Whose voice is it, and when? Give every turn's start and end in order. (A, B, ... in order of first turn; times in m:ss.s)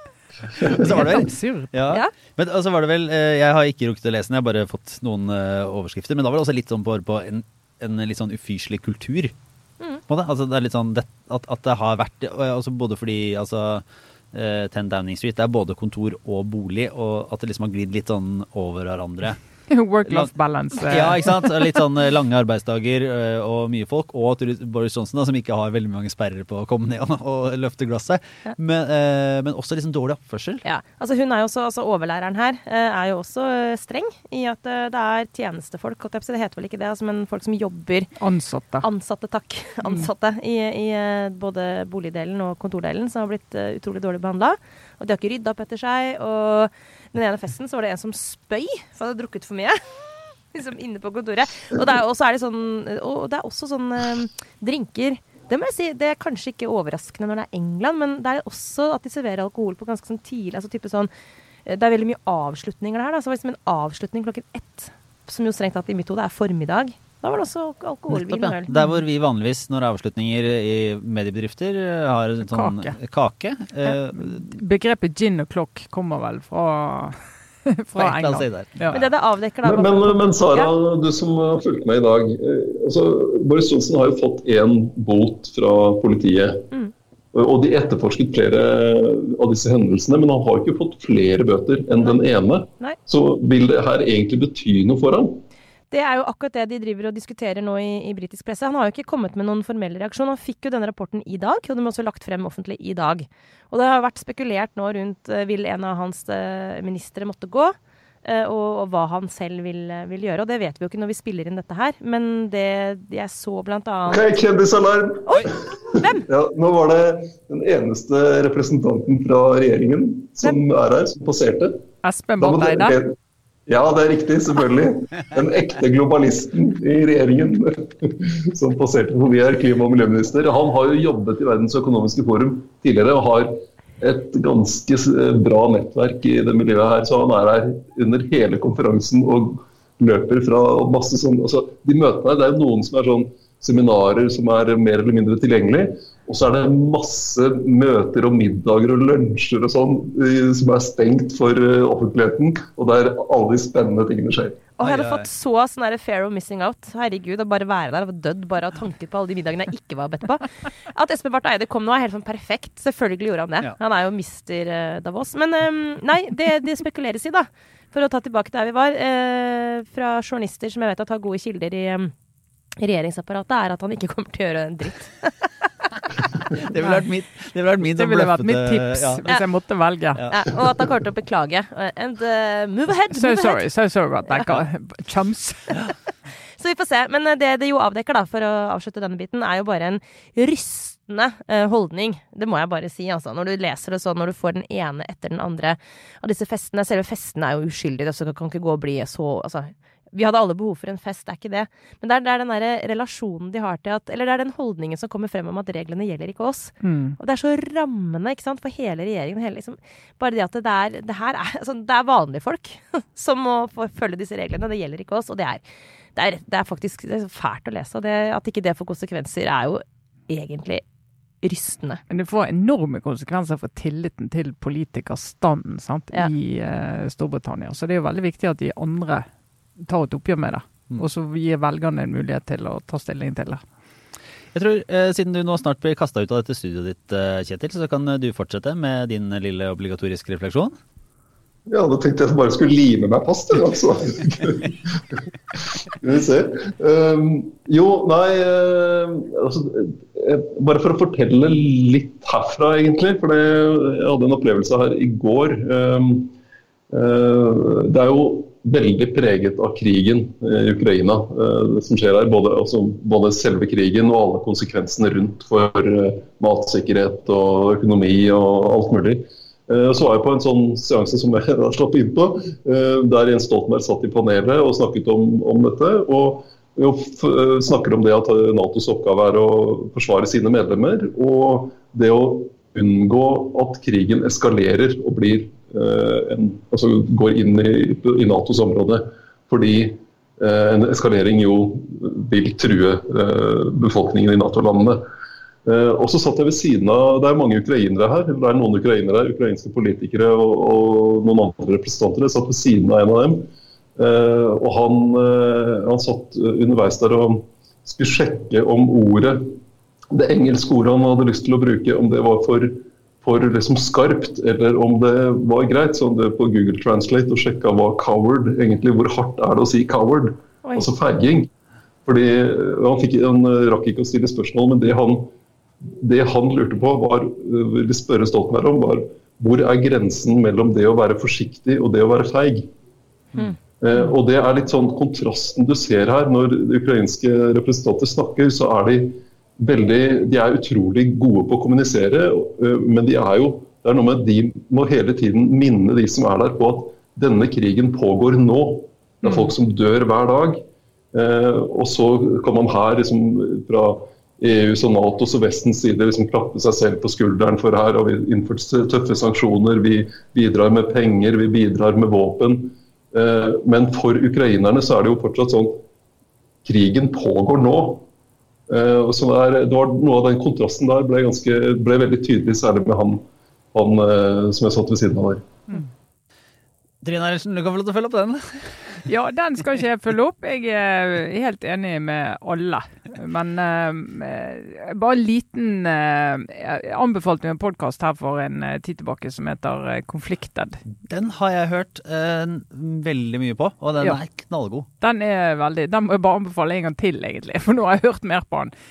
0:00.6-0:09.3 A
0:00.7-0:01.7 B
0:10.1-0:19.4 A
0:19.7-0:21.3 B
0:20.0-0:30.6 A
0:30.6-0:38.1 C
0:38.2-0:38.8 B
0:38.8-0:49.8 C
0:39.8-0:40.1 B
0:50.5-1:01.1 C
1:01.6-1:08.7 C
1:08.1-1:14.5 A
1:12.5-1:13.0 B
1:13.9-1:19.0 B
1:18.0-1:18.7 A
1:18.9-1:20.7 C
1:19.6-1:26.7 D
1:27.3-1:35.4 D
1:35.9-1:54.3 C
1:54.1-2:01.8 D
1:55.3-1:56.3 C
2:02.0-2:03.0 B
2:02.4-2:03.1 D
2:03.7-2:34.6 D
2:34.8-2:52.1 C
2:34.8-2:35.3 A
2:52.8-2:56.2 C
2:56.4-2:59.2 A
2:57.8-3:00.2 B
3:00.2-3:00.5 A
3:00.3-3:03.6 C
3:03.1-3:05.9 B
3:06.6-3:35.6 C
3:26.8-3:27.2 B
3:36.1-3:40.8 C
3:41.4-3:42.0 C
3:42.1-3:49.2 B
3:49.8-3:53.6 B
3:54.5-4:00.8 A
4:01.7-4:16.3 D
4:16.9-4:55.0 D
4:55.6-5:09.6 D
5:10.1-5:21.5 D
5:22.0-5:25.3 D
5:25.9-5:32.7 D
5:33.8-5:50.6 D
5:49.2-5:49.5 B
5:51.1-6:05.8 D
6:06.6-6:08.0 D
6:08.7-6:13.2 D
6:13.7-6:15.4 D
6:17.0-6:19.1 A
6:19.0-6:30.8 B
6:31.0-6:34.9 A
6:35.0-6:38.7 B